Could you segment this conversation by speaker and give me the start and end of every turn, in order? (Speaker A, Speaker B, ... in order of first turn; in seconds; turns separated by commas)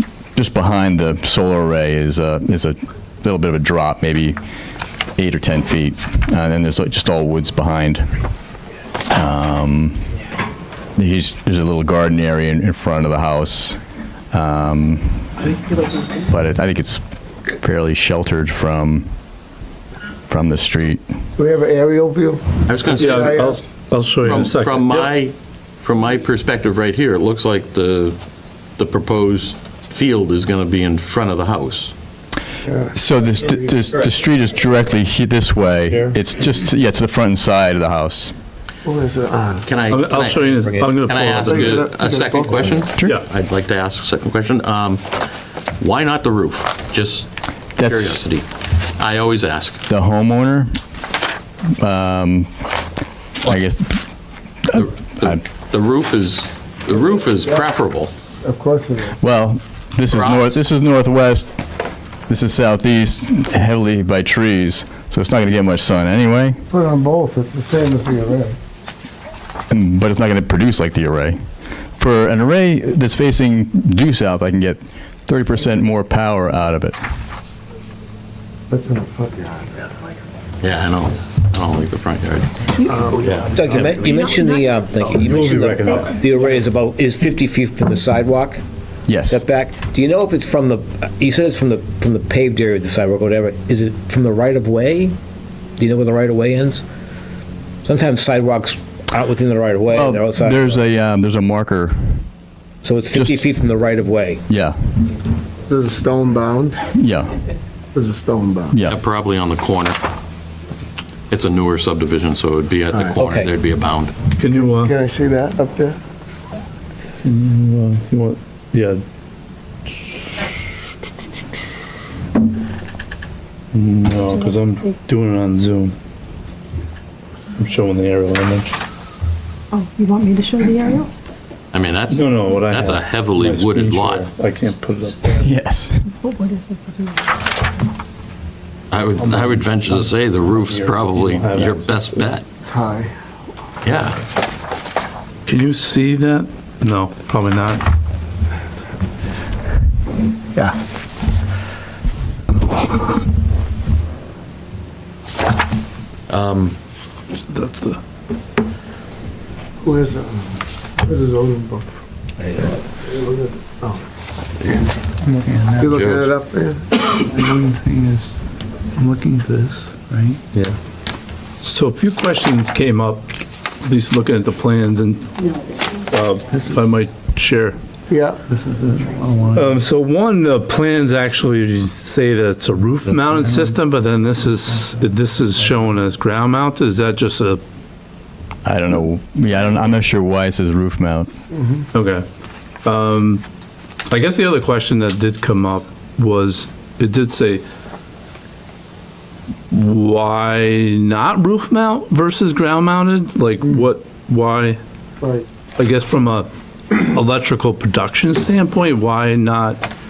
Speaker A: 0.3-4.4, Speaker A: 5.2-8.1, Speaker A: 9.1-10.1, Speaker A: 11.0-13.8, Speaker A: 14.3-15.5, Speaker A: 16.3-19.1, Speaker A: 20.3-21.0, Speaker B: 21.4-23.7, Speaker C: 22.7-23.3, Speaker D: 23.0-25.1, Speaker C: 24.2-28.2, Speaker C: 28.7-31.9, Speaker B: 32.6-33.8, Speaker A: 33.0-38.4, Speaker B: 38.9-39.7, Speaker C: 39.7-49.9, Speaker D: 39.9-41.9, Speaker B: 41.3-42.8, Speaker A: 47.8-48.2, Speaker A: 49.9-50.7, Speaker A: 51.8-52.5, Speaker A: 53.4-54.1, Speaker A: 54.7-55.4, Speaker C: 54.7-58.1, Speaker B: 56.9-57.6, Speaker B: 58.4-59.2, Speaker A: 59.2-61.6, Speaker C: 60.1-60.6, Speaker A: 62.3-66.6, Speaker B: 66.7-68.6, Speaker A: 69.7-71.4, Speaker A: 72.0-77.0, Speaker B: 78.7-79.8, Speaker C: 80.6-84.3, Speaker E: 82.7-83.4, Speaker B: 82.9-83.5, Speaker F: 83.5-88.6, Speaker E: 84.0-84.8, Speaker D: 85.1-86.6, Speaker C: 85.3-85.5, Speaker A: 89.1-89.4, Speaker F: 89.3-95.2, Speaker F: 95.8-96.8, Speaker F: 97.8-100.8, Speaker A: 99.9-102.2, Speaker F: 102.8-104.4, Speaker A: 103.1-103.5, Speaker A: 104.5-104.8, Speaker B: 105.7-106.9, Speaker A: 107.0-107.3, Speaker B: 107.9-108.8, Speaker A: 108.7-109.0, Speaker C: 108.9-110.0, Speaker C: 111.3-114.2, Speaker F: 113.2-113.5, Speaker D: 114.4-114.9, Speaker B: 114.5-116.0, Speaker D: 117.2-119.0, Speaker D: 119.9-120.5, Speaker D: 123.7-126.0, Speaker E: 124.5-124.9, Speaker D: 127.6-128.8, Speaker E: 129.7-131.1, Speaker C: 131.7-134.3, Speaker D: 132.1-135.4, Speaker A: 135.3-136.1, Speaker E: 136.2-137.3, Speaker C: 138.9-142.4, Speaker D: 139.2-141.8, Speaker B: 142.6-143.1, Speaker C: 143.8-144.2, Speaker D: 145.5-147.8, Speaker C: 156.3-156.8, Speaker D: 157.3-158.0, Speaker B: 159.8-161.9, Speaker F: 162.4-162.8, Speaker B: 163.0-164.0, Speaker G: 165.2-166.1, Speaker B: 165.8-166.9, Speaker C: 165.9-166.3, Speaker G: 167.2-170.4, Speaker D: 171.6-173.3, Speaker D: 173.8-175.3, Speaker D: 176.1-177.8, Speaker G: 176.5-176.8, Speaker B: 178.1-178.4, Speaker G: 178.5-179.8, Speaker D: 179.5-187.6, Speaker G: 183.2-183.7, Speaker A: 188.7-191.3, Speaker D: 191.9-192.3, Speaker D: 192.8-193.4, Speaker D: 194.1-197.6, Speaker D: 199.7-204.8, Speaker B: 205.2-205.5, Speaker D: 205.8-209.8